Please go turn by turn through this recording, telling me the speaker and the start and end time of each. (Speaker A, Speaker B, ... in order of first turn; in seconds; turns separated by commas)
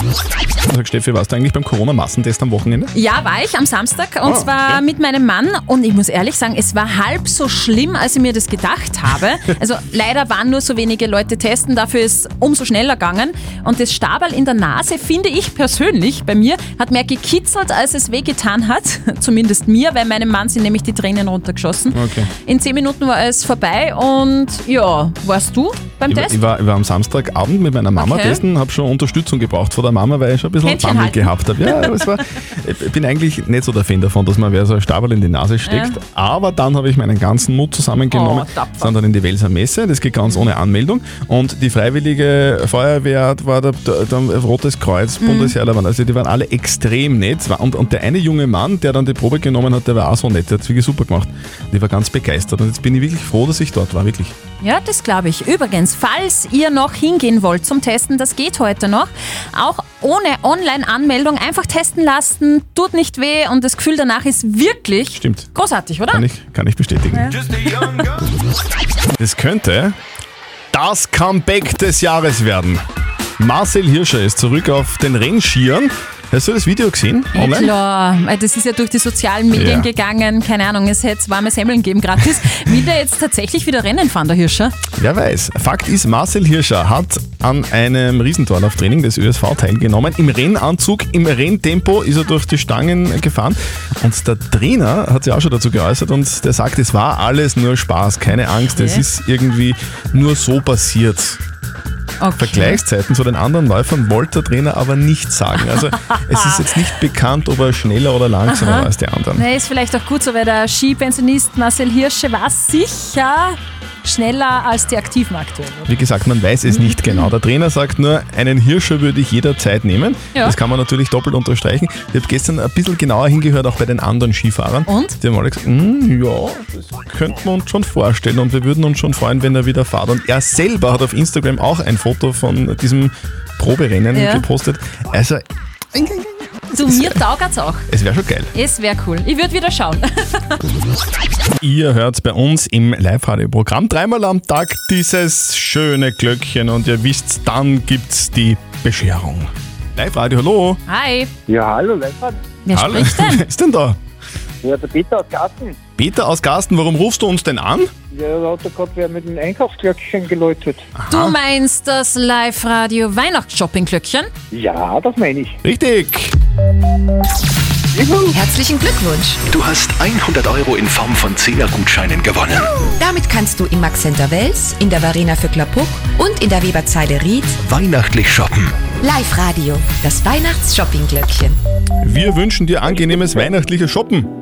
Speaker A: 0.7-2.9, Speaker B: 2.9-26.4, Speaker A: 4.2-4.8, Speaker A: 21.9-22.3, Speaker A: 26.1-54.4, Speaker B: 28.0-28.4, Speaker B: 30.6-31.9, Speaker B: 35.7-36.0, Speaker B: 38.1-38.9, Speaker B: 45.2-45.5, Speaker B: 54.6-66.2, Speaker A: 65.1-65.5, Speaker A: 66.1-68.2, Speaker A: 69.2-70.0, Speaker A: 70.7-72.8, Speaker A: 73.4-77.7, Speaker B: 77.3-84.8, Speaker A: 79.5-79.9, Speaker A: 85.0-101.4, Speaker B: 98.7-99.0, Speaker B: 102.2-102.8, Speaker A: 102.4-109.5, Speaker B: 106.1-106.6, Speaker B: 108.5-115.9, Speaker A: 115.9-137.2, Speaker B: 116.8-117.3, Speaker B: 124.9-125.2, Speaker B: 134.1-134.5, Speaker B: 136.7-137.9, Speaker A: 137.9-138.5, Speaker B: 138.5-140.6, Speaker A: 141.6-150.8, Speaker B: 150.9-151.3, Speaker C: 151.5-152.3, Speaker B: 152.7-153.4, Speaker A: 152.7-154.0, Speaker C: 154.7-155.6, Speaker A: 156.0-157.9, Speaker C: 158.1-160.9, Speaker A: 161.0-161.4, Speaker B: 161.1-164.3, Speaker C: 164.5-165.6, Speaker A: 165.6-166.4, Speaker D: 168.3-169.4, Speaker E: 169.5-172.9, Speaker D: 173.0-177.6, Speaker E: 177.6-178.8, Speaker D: 179.0-181.6, Speaker A: 182.0-184.3